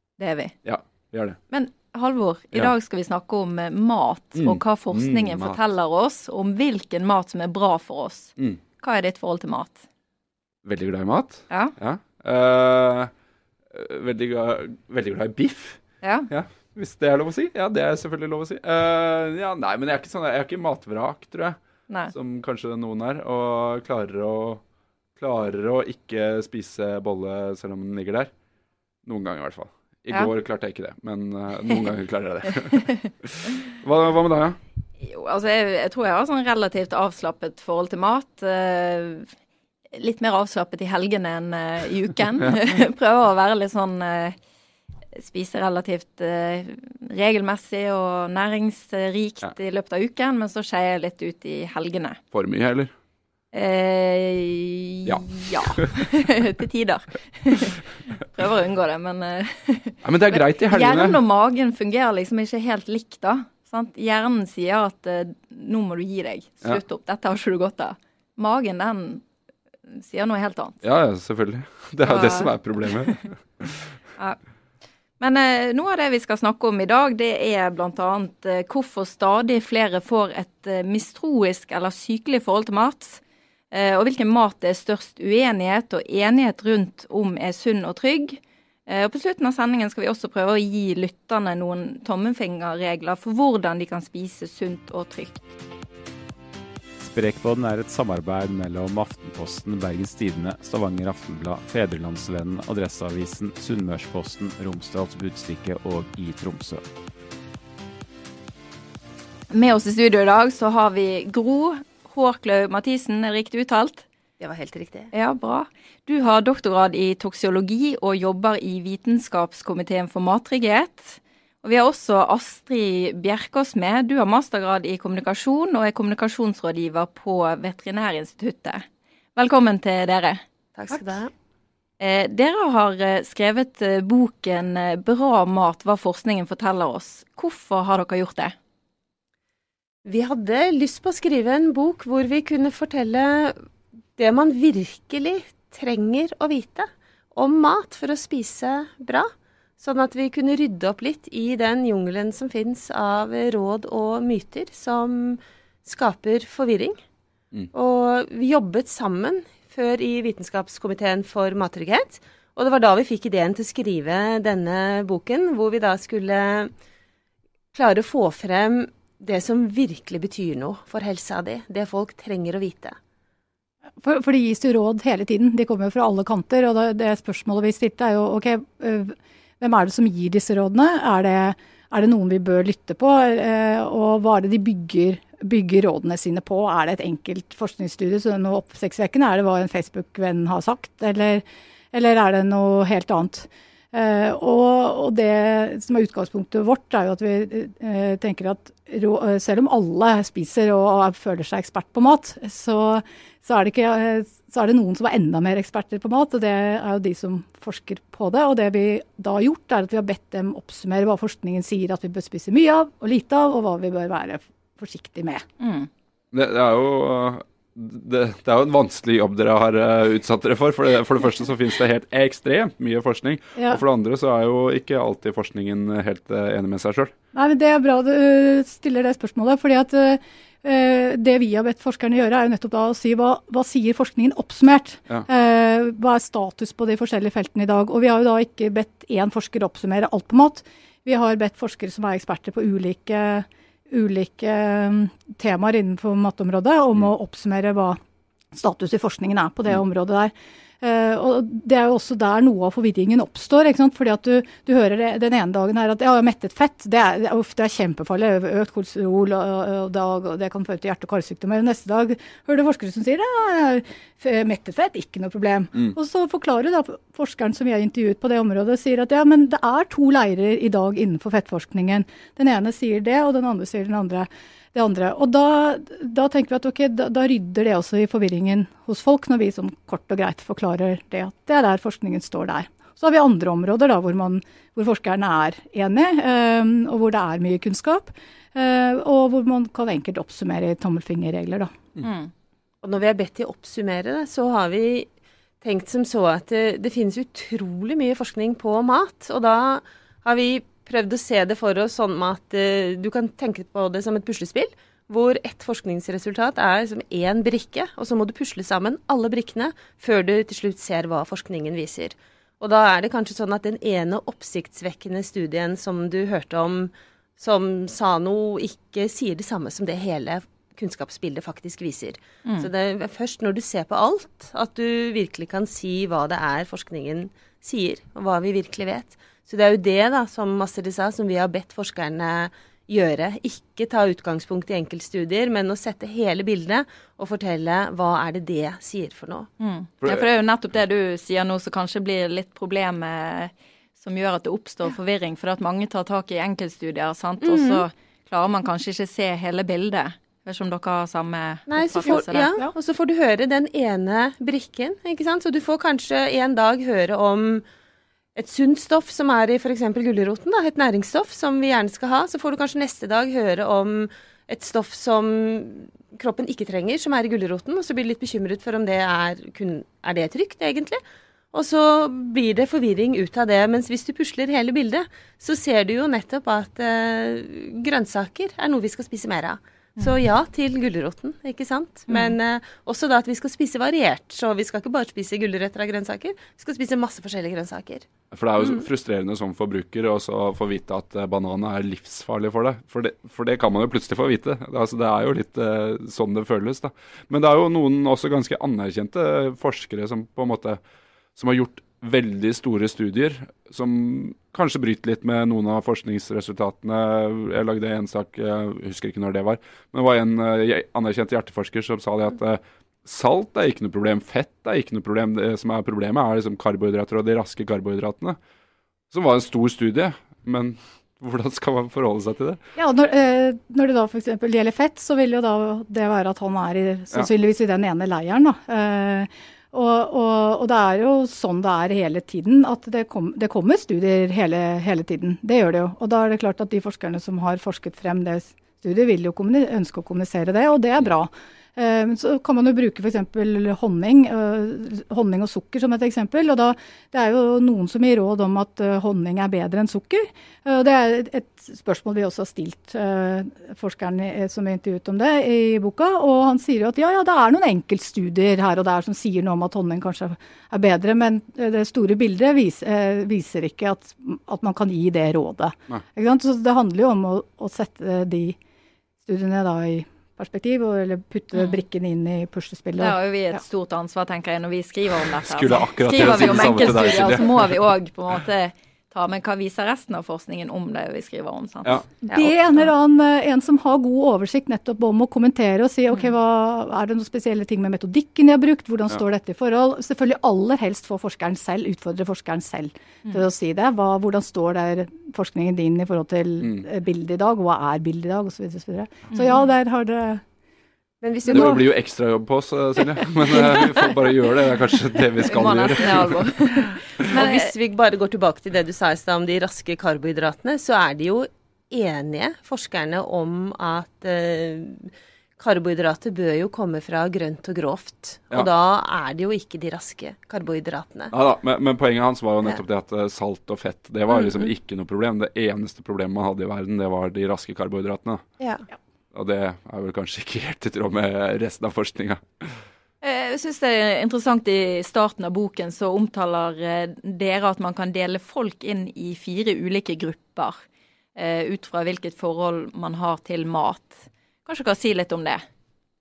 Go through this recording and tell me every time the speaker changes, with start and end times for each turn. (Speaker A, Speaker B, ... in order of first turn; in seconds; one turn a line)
Speaker A: 0.2-0.5
Speaker B: 0.6-1.4
Speaker A: 1.5-9.8
Speaker B: 4.3-5.6
Speaker B: 10.6-13.1
Speaker A: 11.5-11.7
Speaker B: 13.7-21.6
Speaker A: 16.0-16.3
Speaker B: 22.1-24.6
Speaker B: 25.2-28.3
Speaker B: 29.0-34.6
Speaker A: 35.0-39.3
Speaker A: 39.9-44.4
Speaker A: 45.2-52.2
Speaker B: 52.3-52.9
Speaker A: 53.5-57.8
Speaker B: 55.0-56.0
Speaker A: 58.4-69.2
Speaker B: 60.0-61.2
Speaker A: 69.9-70.8
Speaker B: 70.8-73.9
Speaker A: 72.0-72.5
Speaker A: 75.2-95.5
Speaker C: 97.0-106.8
Speaker A: 109.5-114.0
Speaker D: 114.4-115.1
Speaker A: 115.1-128.8
Speaker A: 129.3-130.4
Speaker D: 130.7-131.3
Speaker A: 132.0-138.5
Speaker D: 140.0-143.6
Speaker D: 144.2-149.3
Speaker D: 149.8-157.0
Speaker D: 157.7-166.7
Speaker D: 167.7-172.9
Speaker E: 174.0-215.4
Speaker A: 215.6-215.9
Speaker B: 216.3-227.1
Speaker E: 223.6-223.8
Speaker E: 227.3-248.0
Speaker E: 248.5-291.7
Speaker A: 292.0-292.3
Speaker D: 292.8-295.1
Speaker D: 295.6-339.5
Speaker A: 339.6-352.5
Speaker B: 340.0-340.3
Speaker D: 347.4-347.8
Speaker D: 351.7-357.6
Speaker E: 352.1-352.7
Speaker D: 358.4-371.0
Speaker D: 371.5-388.1
Speaker A: 382.1-382.4
Speaker B: 388.3-400.8
Speaker D: 388.6-388.9
Speaker B: 401.4-418.4
Speaker B: 419.1-422.6
Speaker E: 422.8-468.6
Speaker E: 469.2-473.6
Speaker A: 471.5-471.8
Speaker A: 473.0-482.0
Speaker B: 475.4-477.8
Speaker E: 482.3-500.4
Speaker A: 499.3-499.6
Speaker D: 501.2-501.8
Speaker E: 501.4-501.8
Speaker B: 501.5-506.5
Speaker D: 503.5-504.1
Speaker A: 505.4-507.7
Speaker D: 507.3-521.3
Speaker B: 521.3-528.4
Speaker D: 528.6-528.8
Speaker B: 529.3-532.8
Speaker A: 533.2-540.8
Speaker A: 541.4-545.6